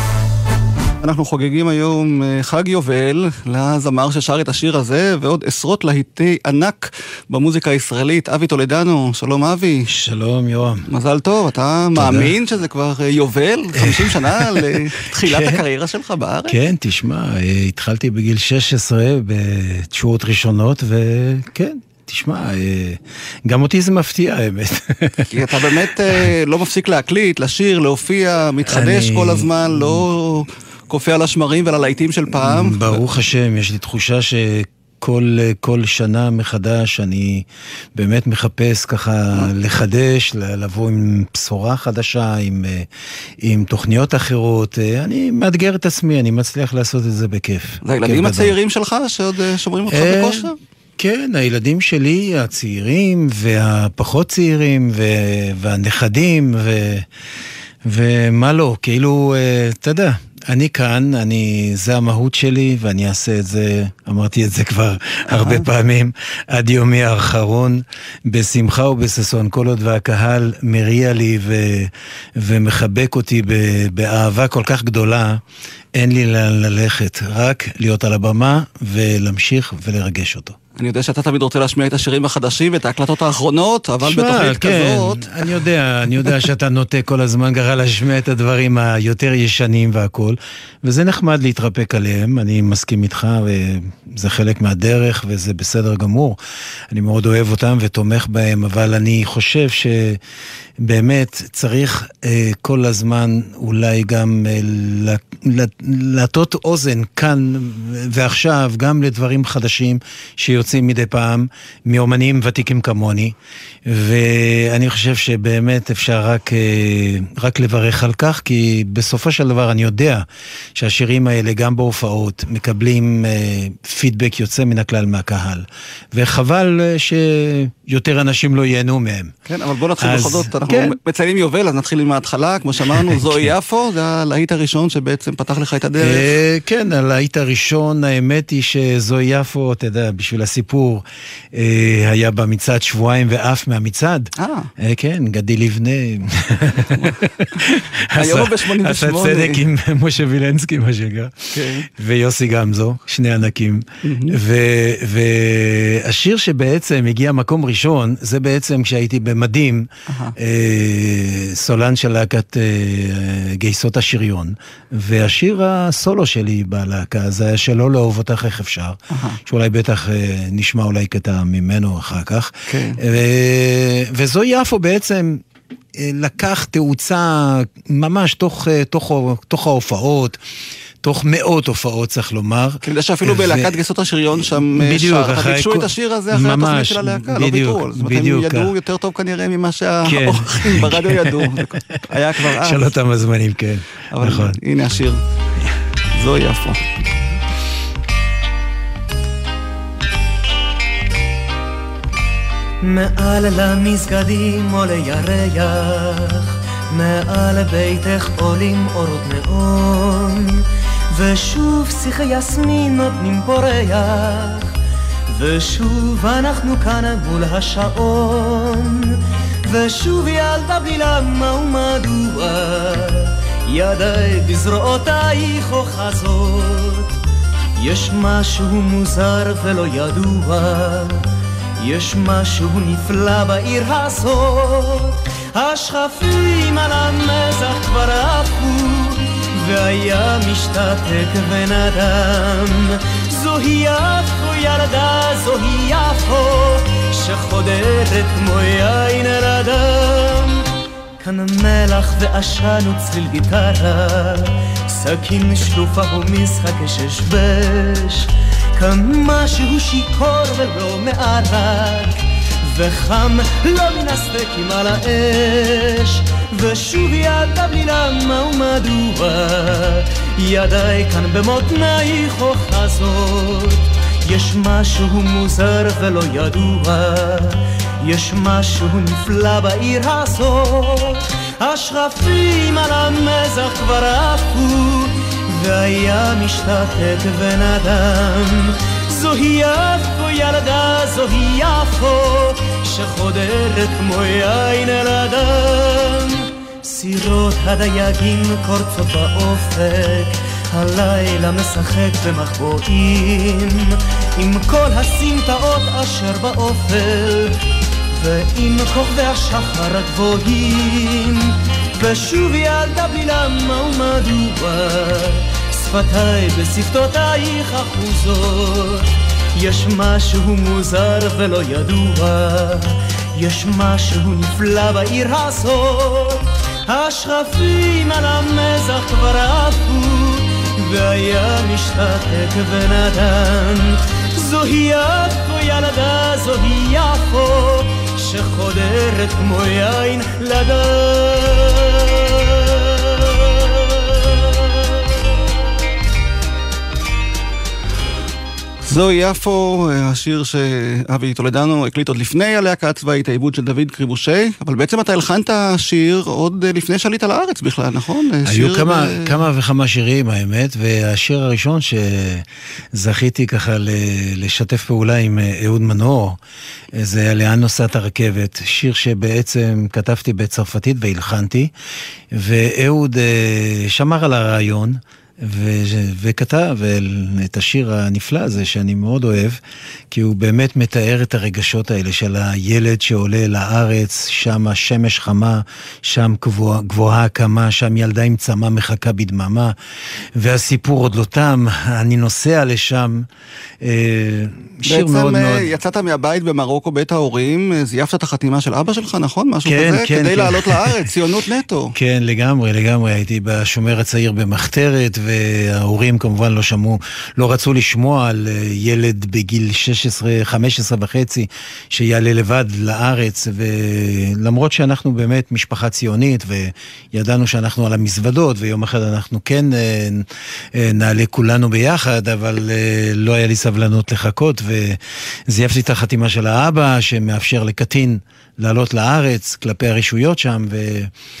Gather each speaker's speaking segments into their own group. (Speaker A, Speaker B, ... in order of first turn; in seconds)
Speaker A: 1.0-9.9, 10.9-16.6, 25.3-33.0, 47.8-50.5, 65.3-65.7, 80.8-85.5, 129.5-136.3, 144.4-144.7, 147.0-147.6, 148.1-149.6, 151.5-151.9, 154.0-154.4, 160.1-160.3, 169.1-169.4, 172.7-173.0, 182.8-192.9, 194.1-195.2, 196.1-196.9, 348.8-359.4, 394.9-401.9
Speaker B: 9.9-10.9, 11.9-12.3, 13.8-15.6, 16.5-25.7, 28.6-30.1, 32.3-42.9, 43.4-48.5, 49.9-57.1, 57.8-75.4, 75.9-80.6, 84.0-96.4, 96.9-100.2, 100.8-129.3, 130.0-131.0, 132.9-133.4, 136.0-175.4, 175.9-180.4, 181.0-183.8, 184.4-188.7, 190.0-194.6, 358.4-366.4, 366.9-371.7, 372.3-379.6, 380.1-389.7, 390.4-393.3, 393.8-395.7, 399.6-401.1, 401.9-431.1
Speaker C: 202.8-214.7, 215.3-227.1, 227.8-231.2, 231.8-250.6, 251.2-307.5, 308.1-344.4